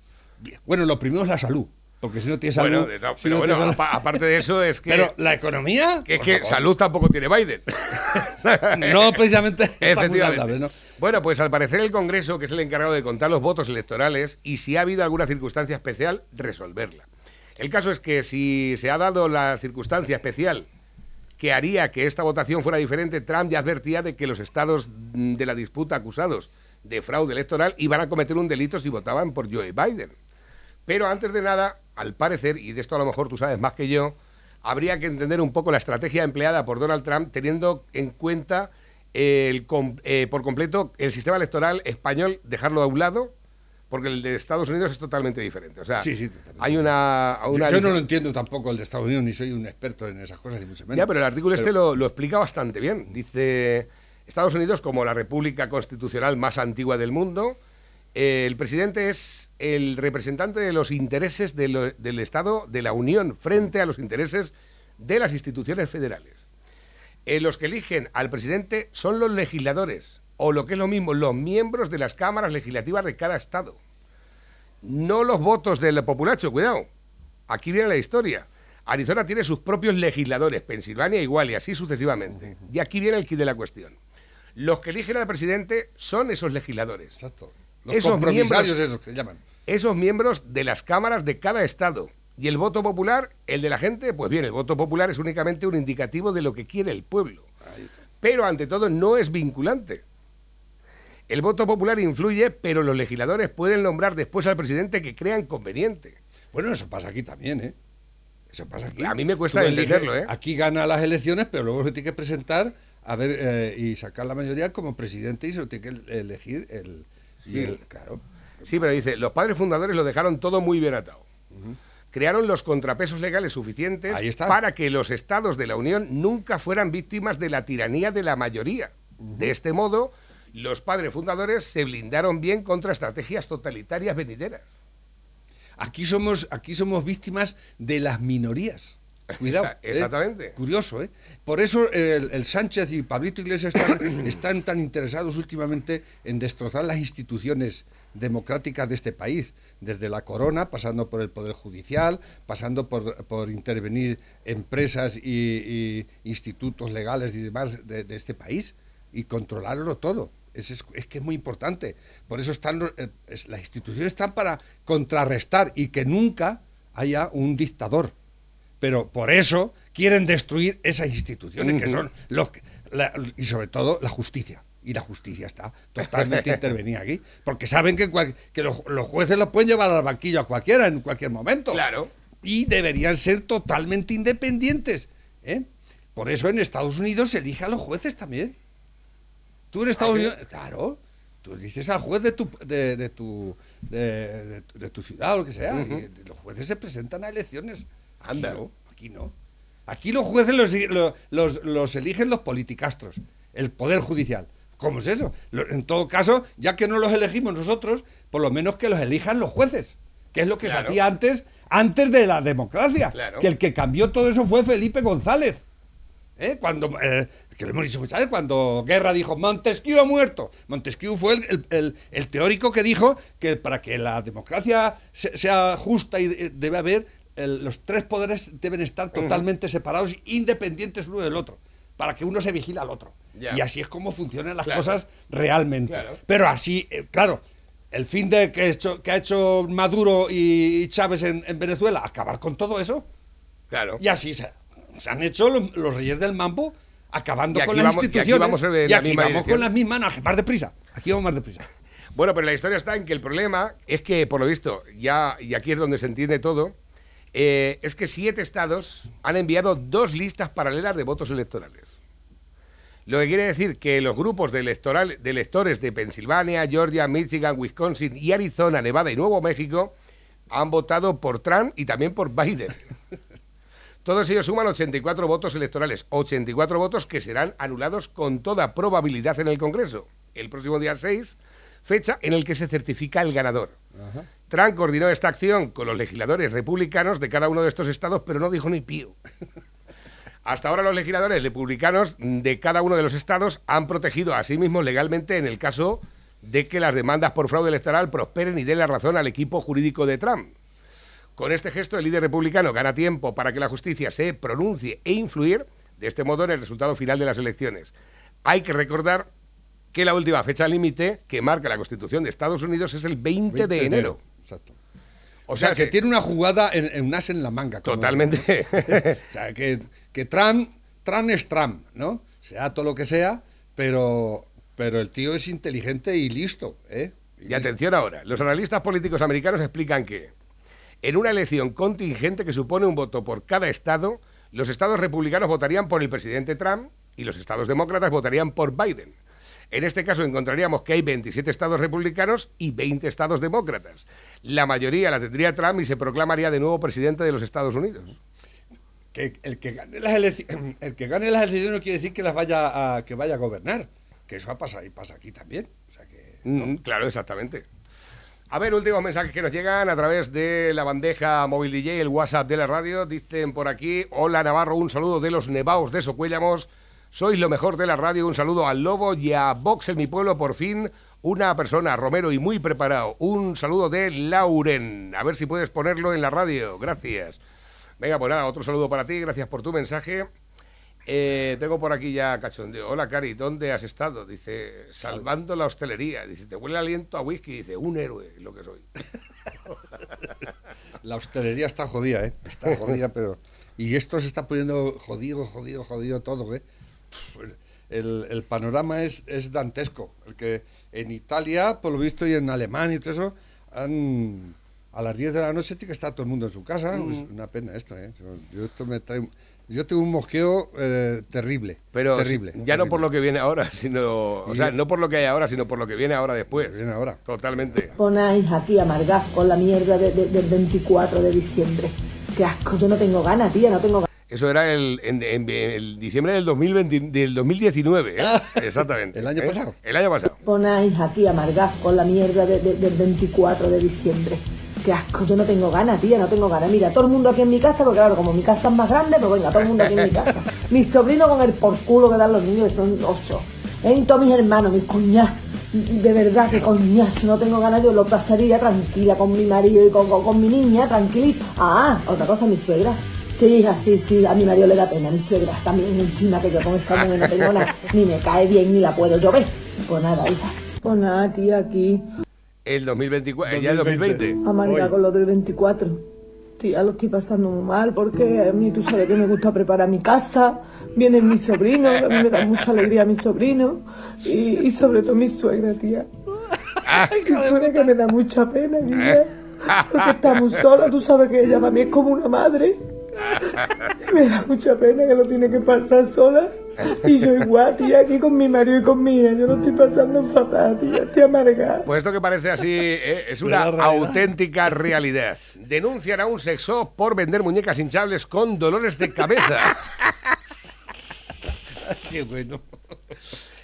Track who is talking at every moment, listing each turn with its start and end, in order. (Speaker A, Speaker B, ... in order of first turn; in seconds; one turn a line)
Speaker A: 0.4-3.8
Speaker B: 2.5-5.1
Speaker A: 4.9-6.7
Speaker B: 6.1-9.2
Speaker A: 8.6-10.7
Speaker B: 9.8-17.0
Speaker B: 17.6-20.7
Speaker B: 21.4-30.1
Speaker B: 30.9-43.3
Speaker B: 43.9-46.1
Speaker A: 46.0-46.9
Speaker B: 46.6-48.0
Speaker A: 47.5-51.7
Speaker B: 50.9-57.6
Speaker B: 58.1-66.4
Speaker B: 67.2-73.8
Speaker B: 74.8-76.8
Speaker B: 77.5-84.0
Speaker B: 84.6-87.2
Speaker A: 87.2-89.4
Speaker B: 87.9-88.7
Speaker B: 89.7-97.5
Speaker A: 97.6-97.9
Speaker B: 98.2-100.0
Speaker B: 101.3-106.2
Speaker A: 106.5-107.7
Speaker A: 108.5-118.2
Speaker B: 109.0-110.3
Speaker B: 117.5-117.7
Speaker B: 118.7-121.2
Speaker A: 121.5-121.8
Speaker B: 122.1-134.6
Speaker A: 124.1-124.6
Speaker A: 129.2-129.5
Speaker A: 135.8-168.1
Speaker B: 139.3-140.5
Speaker A: 168.8-181.9
Speaker B: 171.6-172.0
Speaker B: 181.7-182.1
Speaker A: 182.4-188.5
Speaker A: 189.7-199.3
Speaker B: 190.0-190.3
Speaker B: 195.7-196.0
Speaker B: 198.2-198.6
Speaker A: 199.9-215.6
Speaker B: 210.6-211.0
Speaker B: 213.1-213.5
Speaker A: 216.4-243.1
Speaker B: 229.1-229.4
Speaker B: 233.3-233.6
Speaker B: 234.6-234.9
Speaker B: 235.9-236.2
Speaker B: 243.7-244.0
Speaker A: 244.0-251.7
Speaker B: 247.5-249.7
Speaker B: 252.1-256.7
Speaker B: 257.3-261.9
Speaker B: 263.1-269.9
Speaker B: 270.5-272.9
Speaker B: 274.0-283.8
Speaker A: 283.9-284.3
Speaker B: 284.5-289.1
Speaker B: 290.4-300.5
Speaker B: 301.4-307.9
Speaker B: 308.4-309.3
Speaker B: 309.9-314.2
Speaker A: 313.5-314.8
Speaker B: 315.5-315.9
Speaker A: 315.5-327.7
Speaker B: 317.8-319.2
Speaker B: 327.4-330.3
Speaker B: 331.0-339.1
Speaker B: 339.7-348.1
Speaker A: 349.1-356.7
Speaker B: 356.4-357.6
Speaker B: 358.5-377.4
Speaker B: 378.0-380.3
Speaker B: 381.1-388.9
Speaker A: 385.0-385.3
Speaker A: 391.0-413.1
Speaker B: 406.9-407.2
Speaker B: 411.9-416.7
Speaker A: 414.4-414.7
Speaker A: 416.5-417.9
Speaker B: 417.2-417.9
Speaker C: 418.0-424.0
Speaker B: 424.3-430.4
Speaker A: 428.2-429.8
Speaker C: 430.4-462.0
Speaker B: 462.6-464.4
Speaker A: 463.4-464.9
Speaker C: 464.4-466.0
Speaker C: 466.6-476.1
Speaker A: 476.9-477.9
Speaker C: 477.1-491.9
Speaker B: 479.7-480.0
Speaker B: 491.8-499.8
Speaker A: 493.4-494.3
Speaker A: 501.8-503.1